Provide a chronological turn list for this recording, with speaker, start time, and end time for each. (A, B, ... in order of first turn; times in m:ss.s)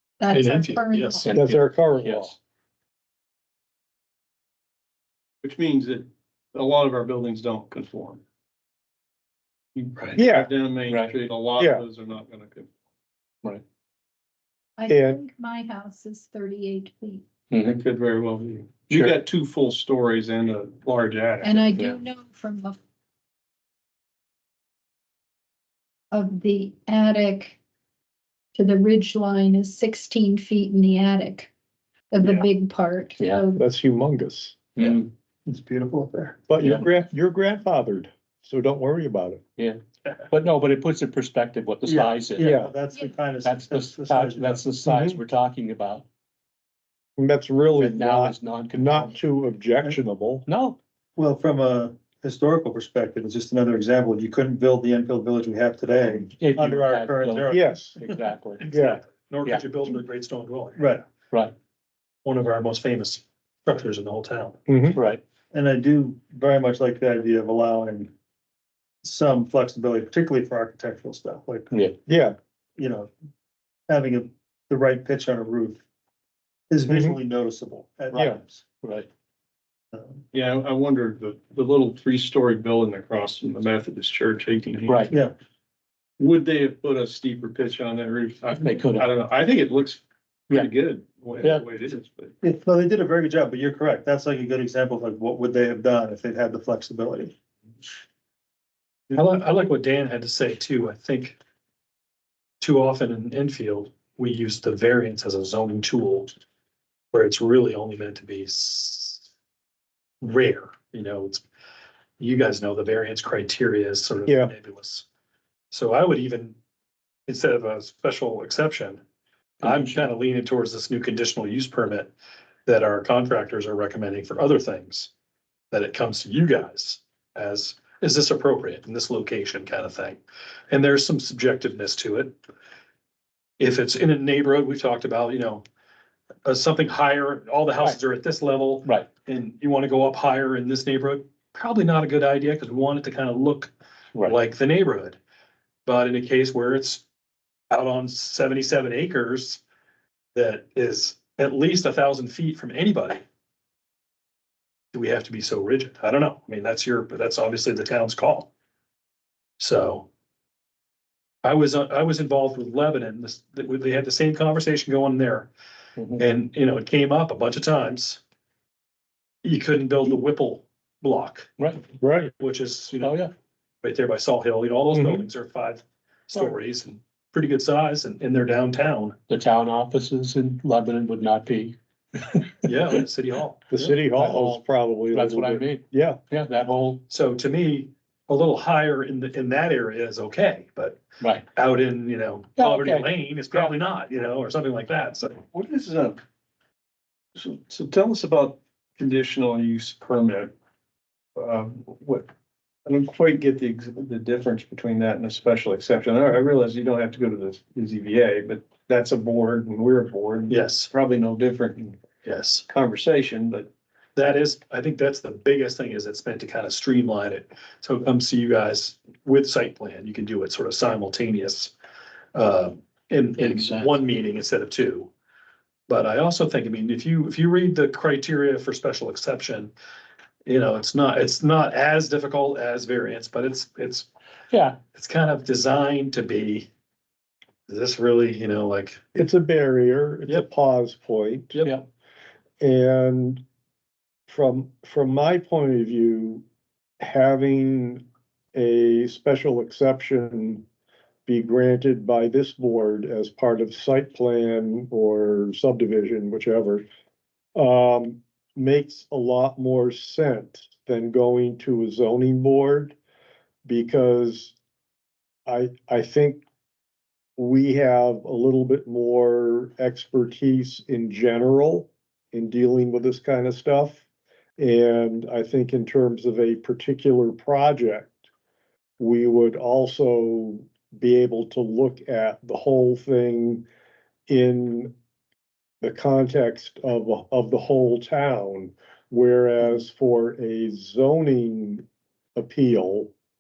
0:00.2-0:01.3 A
0:00.3-0:01.4 B
0:01.2-0:02.4 C
0:01.3-0:02.4 D
0:05.4-0:08.2 E
0:09.8-0:12.7 E
0:10.2-0:10.5 D
0:10.9-0:11.1 C
0:11.6-0:11.8 D
0:14.8-0:17.3 A
0:14.9-0:15.2 D
0:17.5-0:17.8 C
0:17.6-0:22.0 E
0:18.9-0:19.2 C
0:21.4-0:22.8 A
0:26.1-0:27.6 A
0:28.6-0:31.5 A
0:32.1-0:33.6 A
0:33.6-0:34.6 D
0:34.8-0:35.1 C
0:34.8-0:36.4 F
0:36.5-0:39.4 D
0:36.6-0:36.9 C
0:39.6-0:42.6 C
0:41.9-0:44.7 F
0:42.4-0:42.8 D
0:43.4-0:46.1 C
0:44.8-0:45.2 D
0:47.2-0:50.5 D
0:47.8-0:49.2 C
0:50.5-0:50.8 C
0:51.2-0:57.9 F
0:56.3-0:58.7 C
0:57.5-0:58.0 D
0:58.6-1:00.9 B
0:58.7-0:59.0 D
1:00.8-1:01.1 F
1:02.2-1:04.6 B
1:04.7-1:05.0 D
1:05.0-1:05.2 C
1:05.5-1:08.1 F
1:09.0-1:11.7 F
1:11.7-1:12.0 C
1:12.1-1:12.4 D
1:12.8-1:13.1 F
1:13.9-1:15.8 F
1:16.7-1:18.6 F
1:16.9-1:17.2 D
1:18.1-1:18.4 D
1:18.8-1:19.1 C
1:19.9-1:20.2 F
1:20.3-1:25.1 E
1:24.9-1:25.1 C
1:26.2-1:32.4 E
1:28.5-1:29.1 C
1:32.4-1:37.3 F
1:39.1-1:41.4 B
1:42.6-1:46.4 B
1:47.1-1:49.3 B
1:50.2-1:51.4 B
1:52.2-1:55.0 B
1:54.3-1:54.5 D
1:55.7-1:56.6 B
1:57.3-1:59.0 B
1:59.6-2:02.1 B
1:59.6-2:00.0 C
2:02.7-2:05.1 B
2:05.7-2:12.4 B
2:13.6-2:15.6 B
2:16.4-2:25.2 B
2:25.9-2:27.0 B
2:27.7-2:29.6 B
2:30.4-2:33.2 B
2:34.9-2:38.5 B
2:39.6-2:40.1 B
2:41.4-2:45.5 B
2:46.0-2:46.2 C
2:46.2-2:48.2 B
2:49.4-2:51.5 B
2:52.0-2:52.3 D
2:52.4-2:53.2 B
2:53.0-2:53.3 C
2:53.8-2:59.2 B
2:54.9-2:55.2 D
2:59.3-3:03.0 C
3:02.6-3:03.8 B
3:03.7-3:06.2 D
3:03.8-3:07.0 C
3:07.1-3:15.4 B
3:11.2-3:11.5 C
3:12.6-3:13.7 C
3:15.5-3:16.2 E
3:17.4-3:20.5 E
3:21.4-3:22.3 E
3:22.8-3:32.0 E
3:30.5-3:30.9 B
3:32.2-3:32.6 B
3:32.7-3:33.7 E
3:34.2-3:41.7 B
3:42.4-3:45.1 B
3:43.4-3:44.0 C
3:45.9-3:49.7 B
3:50.4-3:54.1 B
3:54.5-3:54.8 C
3:54.9-3:56.7 B
3:57.7-3:59.0 B
3:59.2-4:01.6 D
4:02.6-4:03.4 D
4:04.3-4:06.4 D
4:07.0-4:10.6 D
4:11.3-4:16.9 D
4:17.6-4:23.0 D
4:23.6-4:24.6 D
4:25.5-4:26.4 D
4:27.4-4:34.0 D
4:34.6-4:38.2 D
4:39.0-4:43.7 D
4:44.3-4:44.9 D
4:45.8-4:51.8 D
4:52.4-4:53.1 D